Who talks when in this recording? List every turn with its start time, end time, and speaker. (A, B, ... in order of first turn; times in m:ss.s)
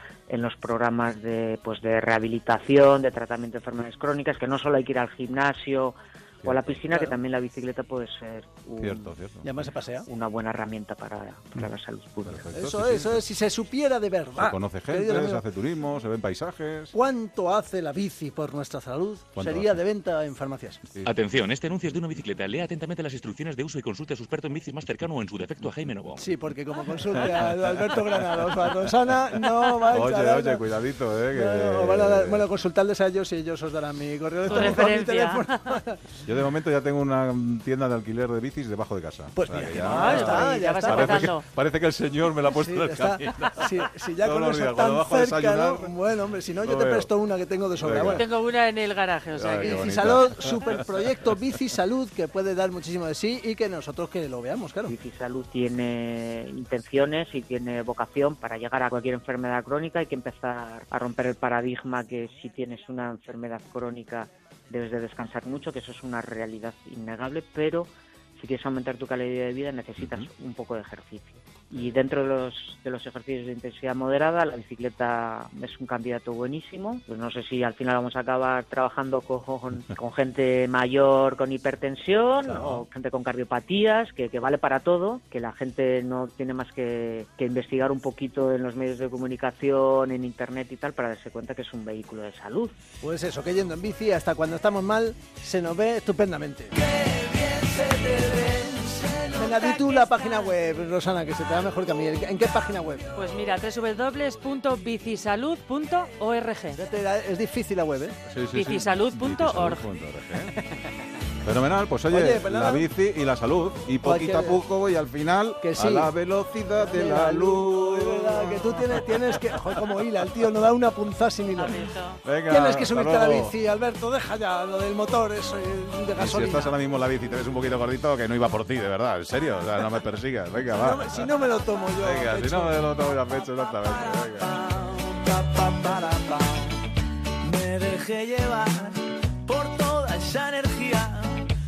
0:00.3-0:09.1 A
0:06.4-0:06.8 B
0:08.8-0:09.6 B
0:09.4-0:10.1 C
0:10.0-0:12.5 A
0:12.2-0:13.2 B
0:12.5-0:15.4 C
0:14.4-0:16.9 B
0:16.9-0:20.8 C
0:19.3-0:19.8 B
0:21.0-0:26.4 D
0:26.2-0:30.6 C
0:27.3-0:27.6 B
0:29.8-0:32.4 B
0:31.3-0:36.0 C
0:34.4-0:35.8 E
0:34.5-0:34.8 B
0:36.2-0:46.0 B
0:39.3-0:41.4 C
0:39.7-0:41.4 E
0:42.5-0:48.2 C
0:46.5-0:47.1 B
0:47.8-0:48.2 B
0:48.0-0:49.9 E
0:49.3-0:50.8 B
0:49.6-0:54.9 C
0:54.9-1:32.8 A
1:10.0-1:10.3 B
1:22.4-1:22.8 B
1:33.0-1:37.8 C
1:38.1-1:38.8 F
1:38.9-1:43.1 C
1:39.6-1:40.2 E
1:43.1-1:46.8 E
1:46.7-1:48.2 C
1:48.2-1:50.6 B
1:48.5-1:49.8 E
1:51.4-1:59.5 B
1:52.1-1:52.9 C
1:54.0-1:54.6 C
1:55.6-1:56.1 C
1:56.8-2:01.9 C
2:01.6-2:02.2 E
2:02.2-2:03.5 B
2:02.5-2:06.7 C
2:06.1-2:11.3 B
2:10.7-2:12.8 C
2:12.0-2:14.6 B
2:14.4-2:16.0 C
2:15.2-2:16.5 F
2:17.4-2:18.6 F
2:17.4-2:19.0 C
2:19.5-2:20.1 F
2:19.8-2:21.4 C